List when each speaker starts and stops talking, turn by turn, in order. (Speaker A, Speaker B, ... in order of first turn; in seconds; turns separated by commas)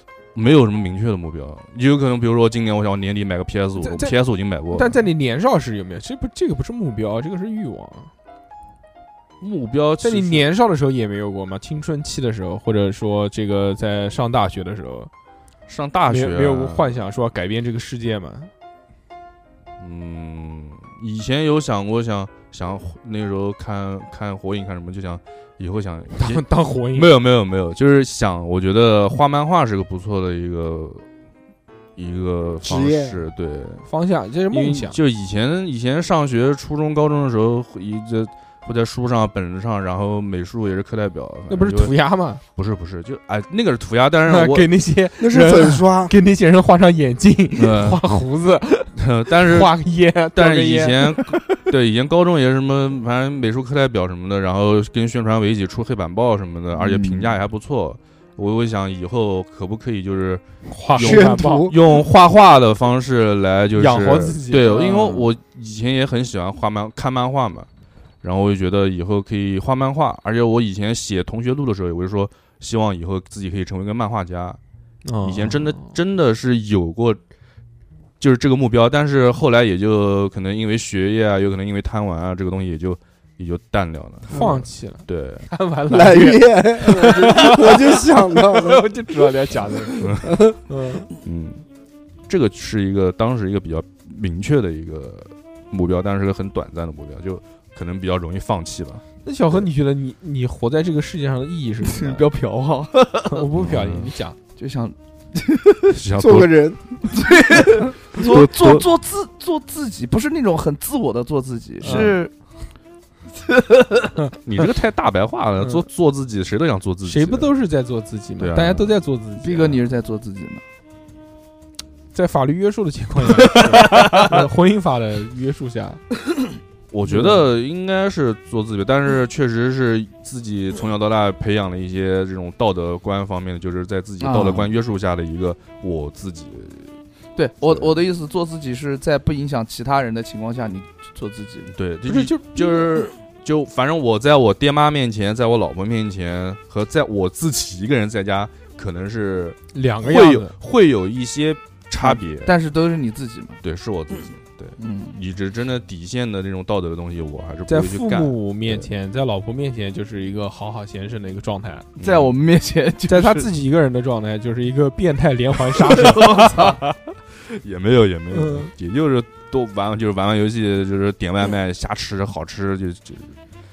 Speaker A: 0.3-4.9, Speaker B: 3.8-4.2, Speaker B: 4.7-8.1, Speaker A: 9.4-10.5, Speaker B: 10.0-15.1, Speaker A: 15.7-16.9, Speaker B: 16.1-18.5, Speaker A: 19.8-31.0, Speaker B: 26.1-27.1, Speaker A: 31.9-33.9, Speaker C: 32.6-33.2, Speaker B: 33.8-35.0, Speaker A: 34.5-41.9, Speaker B: 41.5-42.4, Speaker A: 42.5-44.7, Speaker B: 44.3-51.4, Speaker C: 45.2-46.1, Speaker A: 47.5-48.0, Speaker A: 49.0-49.7, Speaker A: 50.3-60.4, Speaker D: 56.7-57.4, Speaker B: 60.7-61.7, Speaker A: 60.9-67.7, Speaker C: 61.0-61.8, Speaker B: 63.7-65.3, Speaker A: 68.2-74.6, Speaker B: 75.0-75.9, Speaker A: 75.2-77.2, Speaker A: 78.2-85.5, Speaker B: 84.3-91.1, Speaker C: 85.9-88.8, Speaker A: 90.0-90.3, Speaker C: 90.2-90.5, Speaker A: 91.2-91.6, Speaker A: 92.3-99.0, Speaker B: 99.2-102.2, Speaker D: 101.8-103.5, Speaker B: 103.3-104.4, Speaker A: 103.5-104.1, Speaker D: 104.6-106.0, Speaker A: 105.9-106.5, Speaker C: 106.1-106.8, Speaker D: 107.0-112.3, Speaker A: 108.1-108.8, Speaker B: 111.8-112.1, Speaker A: 111.8-112.2, Speaker D: 113.4-114.1, Speaker A: 114.4-117.5, Speaker B: 117.0-119.8, Speaker A: 118.4-118.9, Speaker D: 119.4-120.6, Speaker B: 122.1-126.0, Speaker D: 123.4-124.4, Speaker A: 126.9-137.0, Speaker B: 127.1-127.4, Speaker D: 134.2-134.7, Speaker D: 137.3-141.7, Speaker A: 137.6-138.0, Speaker A: 141.7-152.5, Speaker B: 142.0-142.8, Speaker B: 149.7-150.5, Speaker D: 152.0-153.6, Speaker A: 153.6-158.9, Speaker D: 154.8-155.2, Speaker B: 157.7-161.9, Speaker A: 162.0-162.3, Speaker D: 162.0-163.5, Speaker B: 163.1-166.7, Speaker D: 165.8-166.8, Speaker A: 166.4-173.3